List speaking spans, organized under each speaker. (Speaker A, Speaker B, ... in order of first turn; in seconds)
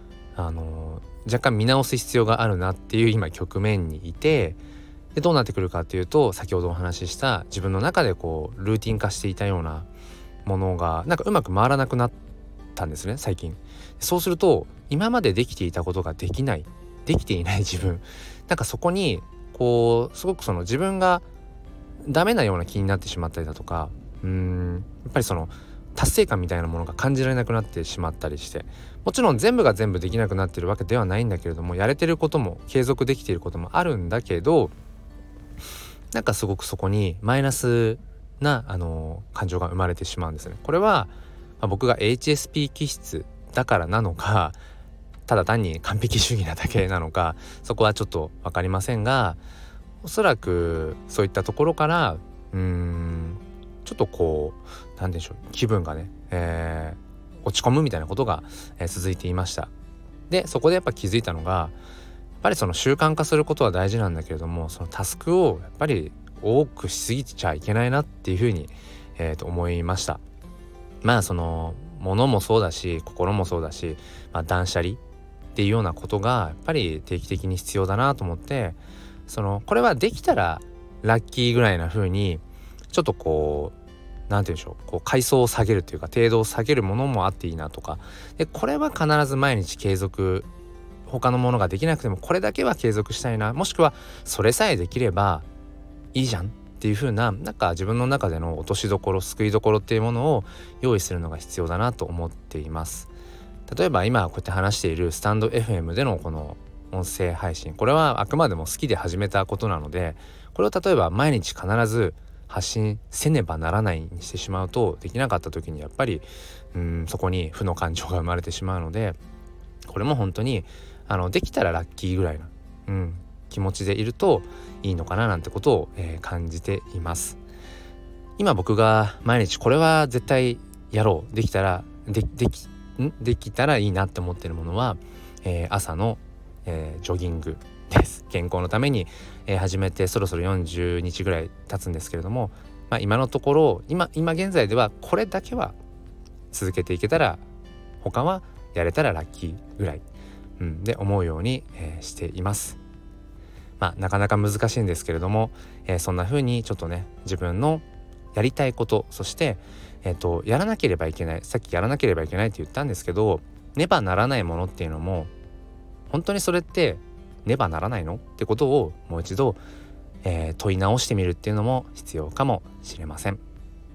Speaker A: 0.3-4.6, 5.1-9.9, 10.4-12.1, 12.7-21.2, 22.0-34.7, 36.1-44.6, 45.3-49.4, 50.0-59.7, 60.3-61.7, 62.4-70.2, 71.0-75.0, 75.5-83.7, 84.3-90.5, 91.1-95.5, 96.1-103.1, 103.7-119.2, 119.9-127.4, 128.4-145.7, 146.5-147.4, 148.0-150.0, 150.6-152.8, 153.8-165.3, 166.1-169.6, 170.2-173.4